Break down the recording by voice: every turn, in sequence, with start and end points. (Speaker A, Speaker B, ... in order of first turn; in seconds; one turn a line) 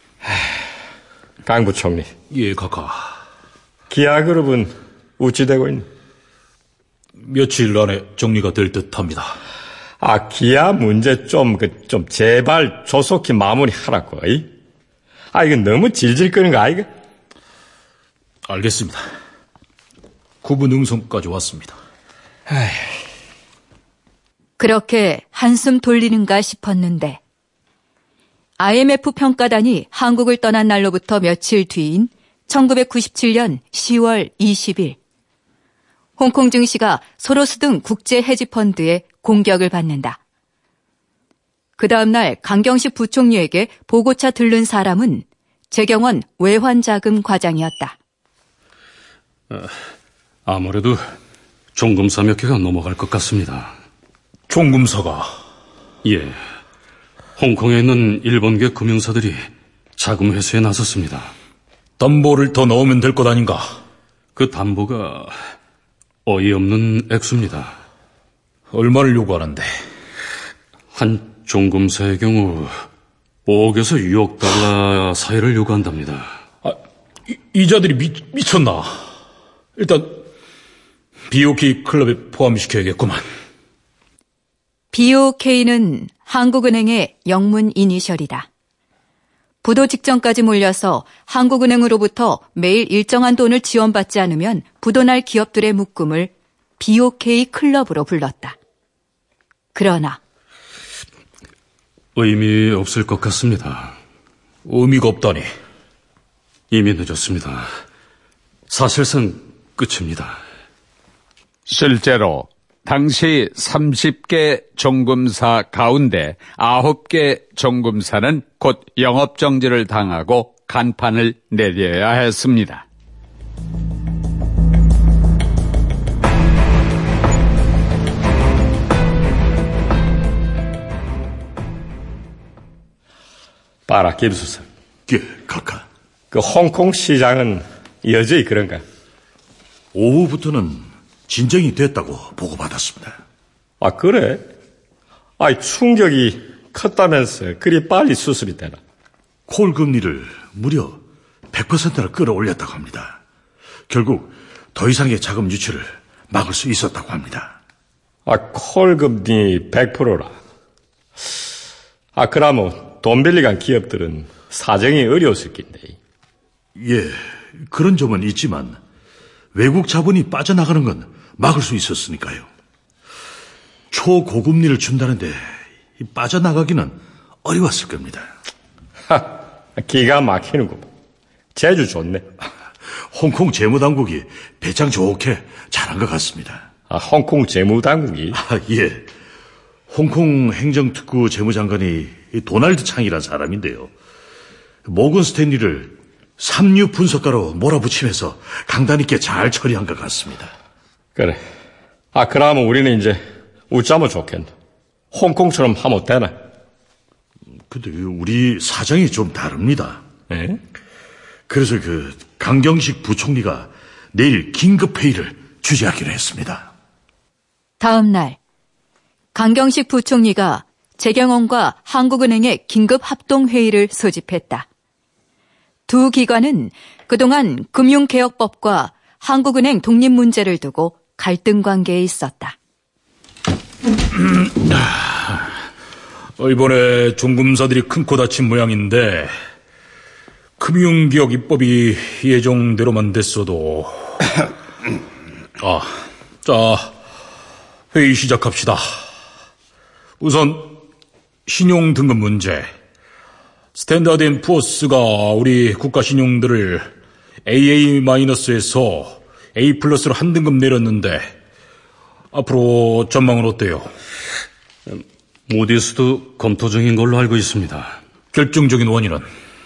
Speaker A: 1.4-2.1
Speaker B: 2.3-3.2
Speaker A: 3.9-5.9
Speaker B: 7.2-9.4
Speaker A: 10.0-14.5
Speaker A: 15.3-16.9
Speaker B: 18.4-19.1
Speaker B: 20.4-21.8
Speaker C: 24.6-27.2
Speaker C: 28.6-35.0
Speaker C: 36.2-40.2
Speaker C: 41.8-48.0
Speaker D: 50.5-51.0
Speaker D: 51.7-53.8
Speaker B: 54.5-55.3
Speaker D: 56.0-56.4
Speaker D: 57.4-61.3
Speaker B: 62.0-63.8
Speaker D: 64.3-65.4
Speaker D: 66.2-67.8
Speaker B: 68.7-69.7
Speaker D: 70.9-72.8
Speaker D: 73.5-76.4
Speaker B: 77.3-79.1
Speaker B: 79.8-80.2
Speaker B: 81.3-83.2
Speaker C: 84.9-88.5
Speaker C: 89.6-98.5
Speaker C: 99.7-100.2
Speaker D: 102.1-104.0
Speaker B: 104.7-105.5
Speaker D: 106.7-107.7
Speaker D: 108.7-110.4
Speaker E: 111.7-122.8
Speaker A: 133.9-134.7
Speaker F: 135.1-135.8
Speaker A: 136.3-138.8
Speaker F: 139.9-143.2
Speaker A: 143.8-144.4
Speaker A: 145.4-148.8
Speaker F: 149.5-151.0
Speaker F: 151.5-153.2
Speaker F: 153.9-157.6
Speaker A: 158.2-160.4
Speaker A: 162.2-166.0
Speaker F: 166.8-168.8
Speaker F: 169.5-172.5
Speaker F: 173.9-178.3
Speaker A: 179.1-180.9
Speaker A: 181.5-182.2
Speaker F: 183.0-186.7
Speaker A: 186.9-188.4
Speaker F: 188.3-189.1
Speaker F: 189.9-193.9
Speaker F: 194.8-200.5
Speaker A: 202.1-204.5
Speaker A: 205.1-206.3
Speaker F: 207.6-210.0
Speaker A: 210.3-210.6
Speaker F: 211.5-216.7
Speaker C: 217.8-218.4
Speaker C: 219.3-224.7
Speaker C: 225.9-232.6
Speaker B: 234.1-235.5
Speaker B: 236.4-239.3
Speaker B: 240.6-244.4
Speaker B: 245.6-246.9
Speaker B: 247.9-249.1
Speaker B: 250.2-250.8
Speaker B: 251.5-252.7
Speaker B: 253.7-256.9
Speaker B: 257.4-261.3
Speaker B: 262.3-263.9
Speaker D: 264.9-268.0
Speaker B: 268.3-269.3